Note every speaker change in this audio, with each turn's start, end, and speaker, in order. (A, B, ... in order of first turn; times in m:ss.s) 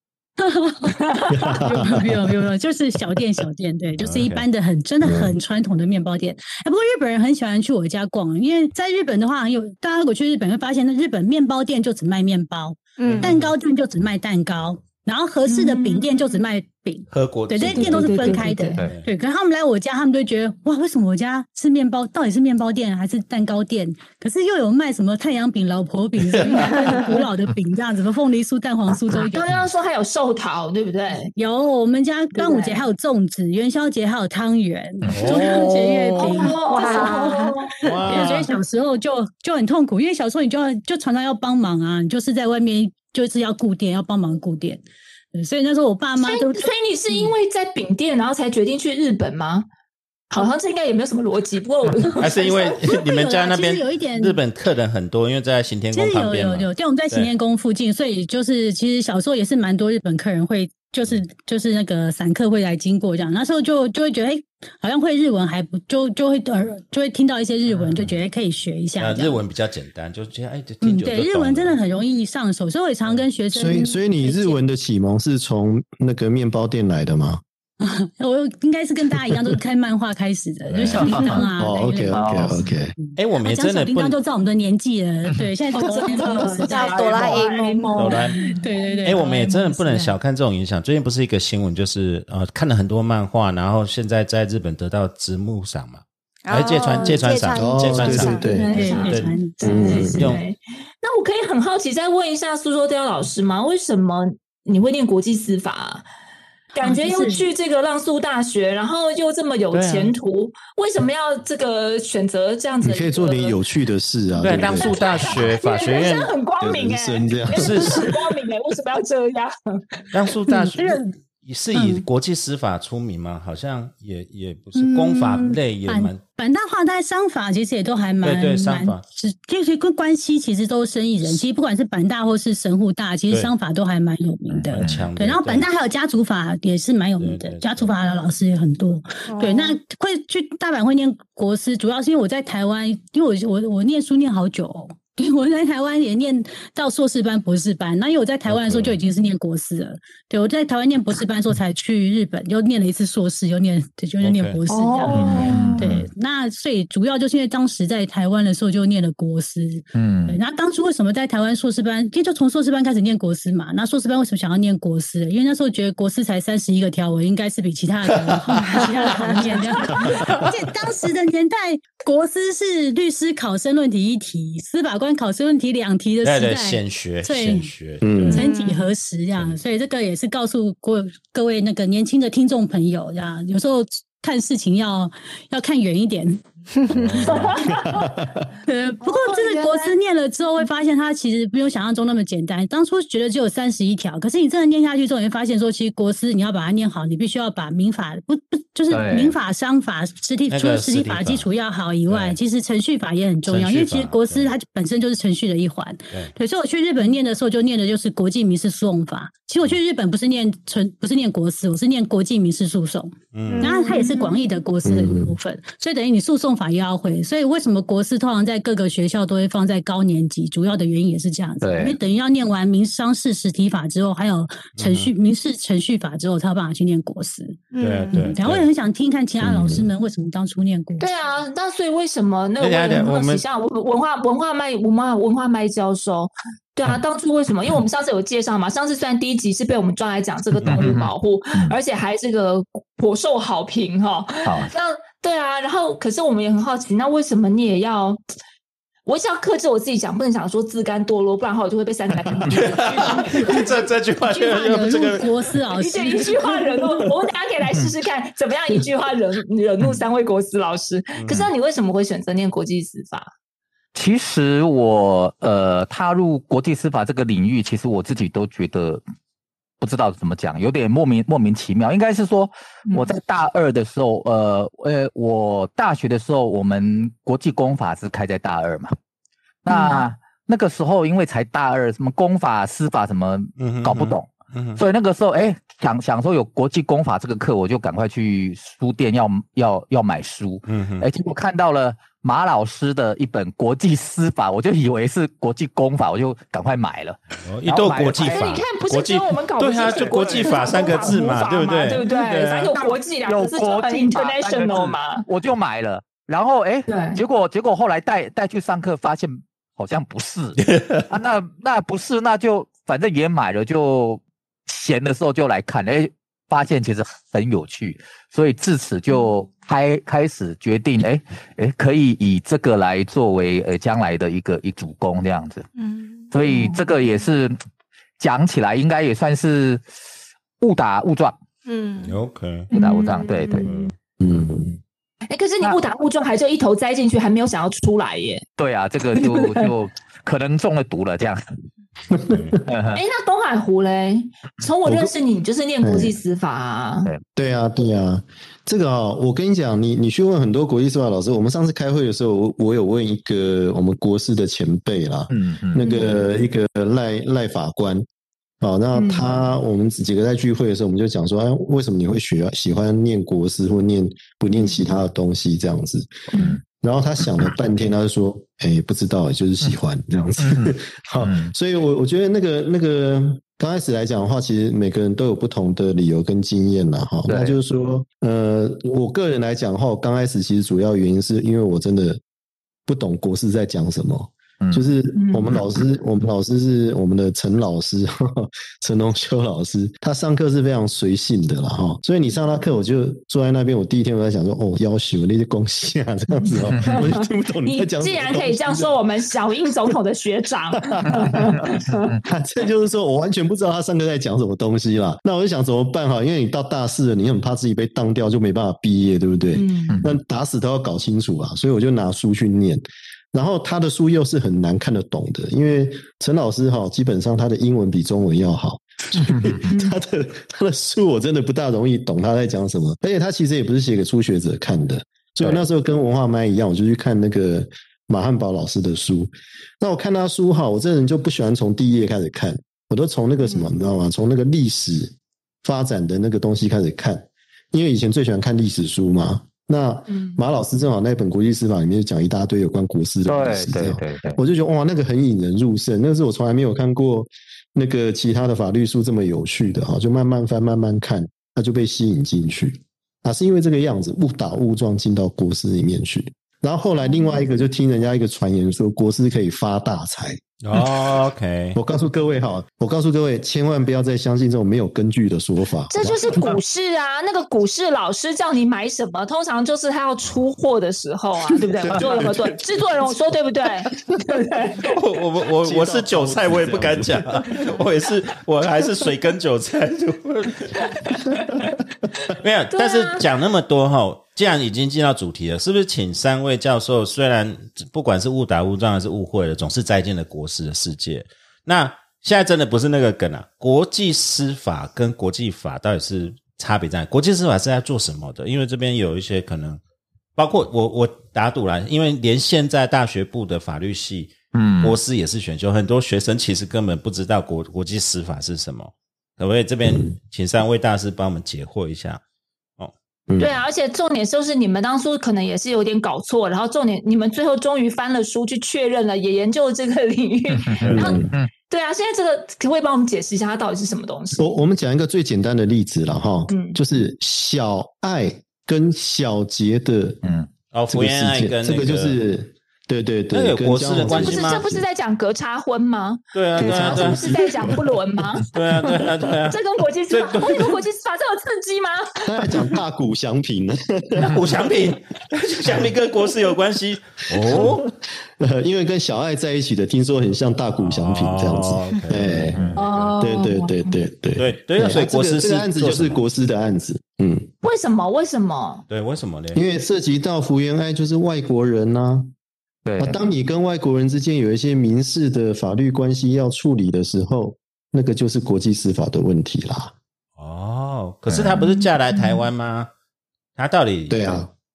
0:00.4-0:01.0 A
0:01.1-0:01.6 B
0:01.3-0:02.0 C
0:01.6-0:29.5 A
0:04.0-0:04.4 D
0:05.0-0:05.3 C
0:13.0-0:13.3 E
0:13.0-0:13.5 D
0:15.5-0:16.1 B
0:17.1-0:19.0 D
0:17.7-0:18.8 B
0:26.3-0:27.0 D
0:29.1-0:31.3 B
0:31.4-0:37.5 A
0:32.3-0:32.9 B
0:35.1-0:36.1 D
0:35.3-0:38.3 B
0:36.2-0:37.7 E
0:37.8-0:38.5 D
0:38.0-0:44.8 A
0:45.3-0:47.3 A
0:46.2-0:49.6 B
0:50.3-0:53.0 B
0:52.2-0:57.3 D
0:52.8-0:54.4 A
0:55.9-1:09.4 A
1:07.7-1:08.1 D
1:09.0-1:11.8 D
1:10.8-1:14.6 A
1:13.5-1:17.4 C
1:17.8-1:22.4 A
1:20.7-1:21.4 D
1:20.9-1:21.4 F
1:21.6-1:22.9 C
1:22.1-1:22.6 B
1:23.0-1:27.4 A
1:23.2-1:24.2 D
1:25.8-1:28.6 B
1:26.0-1:28.1 E
1:27.9-1:28.4 D
1:28.0-1:30.2 A
1:29.0-1:40.4 D
1:36.4-1:39.1 E
1:37.5-1:38.7 C
1:38.5-1:46.0 B
1:38.6-1:39.6 A
1:39.6-1:40.3 C
1:46.7-1:53.6 B
1:46.8-1:47.4 A
1:49.7-1:50.1 D
1:52.8-1:55.5 C
1:54.4-1:56.3 D
1:54.5-1:59.8 B
1:56.6-1:58.1 C
1:57.5-1:58.2 D
2:00.1-2:06.2 D
2:00.5-2:01.1 A
2:01.7-2:02.0 A
2:04.7-3:07.6 A
2:08.2-2:09.0 D
2:14.5-2:15.1 F
2:14.7-2:15.7 D
2:17.2-2:17.9 D
2:19.2-2:19.8 E
2:28.5-2:29.0 D
2:34.2-2:34.6 D
2:34.7-2:35.8 B
2:35.1-2:36.1 F
2:39.9-2:40.4 F
2:56.2-2:58.3 D
2:58.0-2:58.4 C
2:58.3-2:58.6 B
3:06.9-3:07.6 D
3:07.3-3:08.0 B
3:07.8-3:08.4 C
3:08.6-3:51.1 A
3:09.0-3:09.9 B
3:18.9-3:19.4 F
3:20.5-3:21.5 D
3:22.1-3:22.4 D
3:23.4-3:24.5 D
3:33.3-3:33.7 D
3:33.5-3:34.4 B
3:34.8-3:35.3 C
3:41.6-3:42.0 F
3:44.8-3:45.1 D
3:47.7-3:48.3 E
3:47.8-3:48.7 D
3:49.4-3:49.8 C
3:51.0-4:08.2 B
3:52.6-3:53.4 D
4:00.6-4:01.8 F
4:04.4-4:04.7 F
4:09.0-4:13.7 B
4:12.5-4:15.4 D
4:14.2-4:16.8 A
4:15.7-4:23.3 B
4:21.2-4:21.5 D
4:23.9-4:29.0 F
4:29.8-4:38.9 F
4:39.6-4:58.4 F
4:39.7-4:40.0 B
4:43.6-4:44.8 D
4:50.7-4:51.1 D
4:57.4-5:02.7 D
4:58.2-5:05.2 B
4:59.9-5:01.2 F
5:02.1-5:25.6 F
5:06.9-5:07.2 B
5:10.6-5:11.1 D
5:25.8-5:26.3 E
5:26.3-5:27.6 F
5:26.4-5:26.8 B
5:28.2-5:29.8 F
5:30.6-5:31.4 F
5:31.6-5:32.2 E
5:32.0-5:32.7 D
5:32.7-5:33.8 F
5:32.7-5:33.7 B
5:33.6-5:33.9 D
5:34.2-5:34.8 C
5:35.3-5:38.4 B
5:38.6-5:41.6 F
5:39.2-5:39.7 B
5:42.1-5:42.6 C
5:42.3-5:42.6 D
5:42.6-5:43.0 F
5:42.9-5:47.1 B
5:44.8-5:45.1 C
5:45.8-5:46.1 C
5:47.4-5:58.0 C
5:55.3-5:55.8 F
5:55.8-5:56.1 B
5:58.6-6:06.1 C
5:58.9-5:59.4 B
6:06.3-6:06.6 F
6:06.8-6:22.2 C
6:10.4-6:11.5 F
6:17.3-6:17.6 F
6:22.8-6:39.0 C
6:24.6-6:24.9 F
6:25.1-6:25.6 B
6:36.8-6:42.1 B
6:40.8-6:41.7 C
6:42.2-7:40.8 C
6:49.5-6:50.0 B
6:49.9-6:50.1 F
6:59.2-6:59.6 F
6:59.7-7:00.0 B
7:13.4-7:13.7 B
7:20.1-7:20.4 B
7:23.2-7:24.4 F
7:40.6-7:41.8 D
7:41.7-7:46.6 C
7:45.9-7:54.9 B
7:51.6-7:52.6 C
7:54.9-8:01.1 D
7:55.6-7:57.5 C
8:00.8-8:01.7 B
8:02.3-8:19.8 D
8:02.7-8:03.2 B
8:20.4-8:32.2 D
8:24.5-8:25.0 F
8:33.3-8:33.6 C
8:33.4-8:44.5 B
8:40.6-8:41.5 F
8:40.8-8:41.1 D
8:40.8-8:41.3 C
8:44.4-8:50.2 C
8:46.5-8:46.8 B
8:50.2-8:50.5 F
8:50.7-8:52.2 D
8:50.9-8:54.8 C
8:53.3-8:54.6 D
8:54.0-9:02.5 B
8:56.3-8:57.7 D
8:56.6-8:57.8 C
8:58.5-8:59.6 D
9:00.1-9:00.8 D
9:02.2-9:04.6 C
9:04.2-9:07.8 D
9:07.3-9:17.5 C
9:10.8-9:13.1 D
9:12.5-9:12.8 F
9:12.8-9:14.0 B
9:14.4-9:16.2 D
9:17.6-9:18.8 B
9:18.9-9:19.6 D
9:19.5-9:22.3 C
9:22.8-9:23.2 F
9:23.0-9:29.9 C
9:30.4-9:32.9 D
9:31.3-9:31.6 F
9:31.5-9:31.8 B
9:33.6-9:34.2 D
9:34.1-9:34.5 C